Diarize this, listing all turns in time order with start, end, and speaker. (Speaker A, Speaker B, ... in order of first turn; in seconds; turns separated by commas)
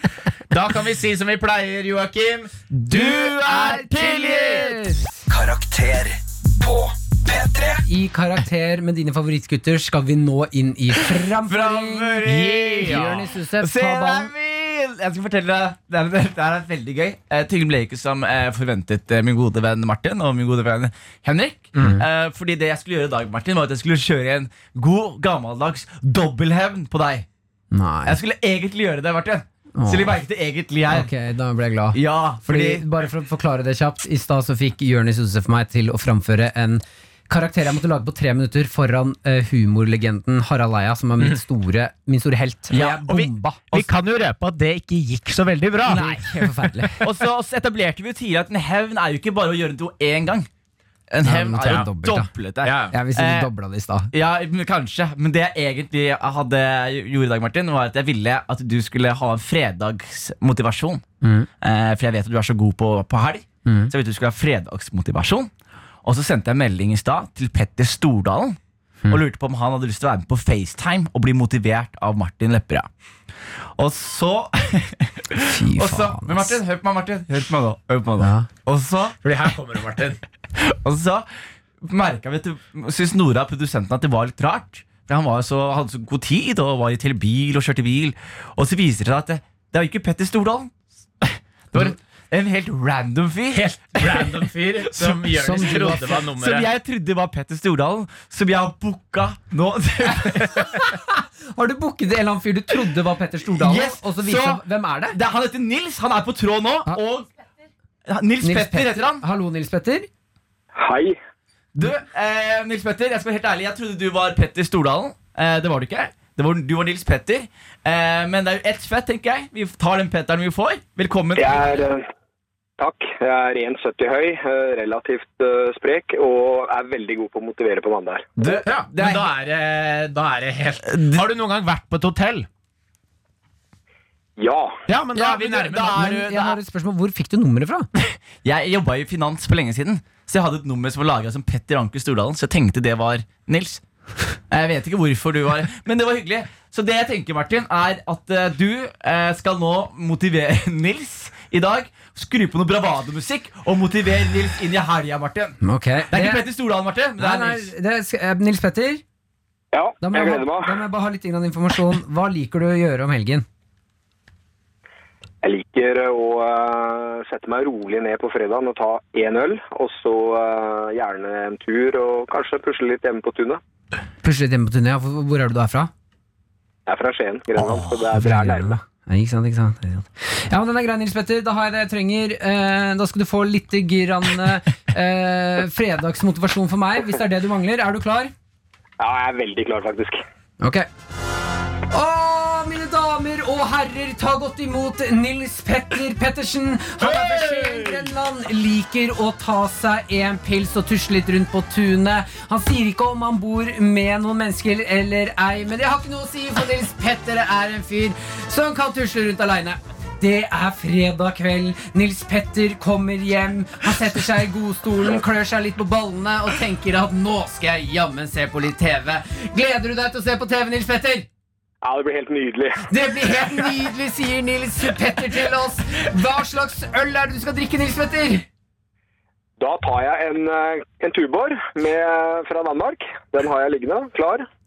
Speaker A: 0.5-3.2, Speaker B: 2.7-5.2, Speaker C: 2.9-4.9, Speaker D: 5.3-7.8, Speaker B: 7.8-12.3, Speaker C: 11.2-27.3, Speaker A: 12.2-13.2, Speaker B: 12.8-14.3, Speaker B: 27.7-28.2, Speaker C: 28.1-31.1, Speaker B: 29.8-30.2, Speaker B: 30.9-43.6, Speaker C: 31.9-32.8, Speaker C: 42.7-43.1, Speaker A: 42.8-46.9, Speaker C: 45.9-46.2, Speaker B: 45.9-47.0, Speaker C: 47.0-50.5, Speaker C: 51.1-53.5, Speaker B: 51.2-52.3, Speaker A: 52.6-52.9, Speaker B: 52.9-54.1, Speaker C: 54.1-61.0, Speaker B: 61.2-61.5, Speaker C: 61.6-65.5, Speaker B: 63.6-63.9, Speaker C: 66.0-68.6, Speaker C: 69.1-72.9, Speaker C: 73.8-79.2, Speaker B: 75.5-76.6, Speaker B: 78.2-78.5, Speaker A: 79.2-80.2, Speaker C: 80.5-81.2, Speaker C: 81.8-100.7, Speaker A: 93.5-96.7, Speaker B: 95.3-96.1, Speaker B: 101.5-105.2, Speaker C: 103.5-107.3, Speaker C: 108.0-109.2, Speaker B: 108.4-110.1, Speaker E: 110.8-111.2, Speaker C: 111.7-121.6, Speaker E: 121.3-122.0, Speaker E: 122.8-128.6, Speaker C: 128.4-129.3, Speaker A: 128.7-132.5, Speaker C: 130.9-131.2, Speaker E: 134.4-134.8, Speaker A: 134.9-136.1, Speaker C: 135.1-136.6, Speaker B: 135.8-137.9, Speaker C: 138.0-143.8, Speaker C: 144.5-155.6, Speaker B: 155.6-156.5, Speaker C: 156.1-157.7, Speaker B: 157.2-159.0, Speaker E: 159.7-160.8, Speaker B: 160.0-163.4, Speaker E: 165.4-173.6, Speaker B: 174.2-175.9, Speaker E: 176.9-178.7, Speaker B: 178.1-188.3, Speaker E: 189.0-190.2, Speaker B: 190.6-190.9, Speaker B: 191.9-221.3, Speaker E: 221.8-222.8, Speaker B: 222.9-228.4, Speaker E: 229.6-234.5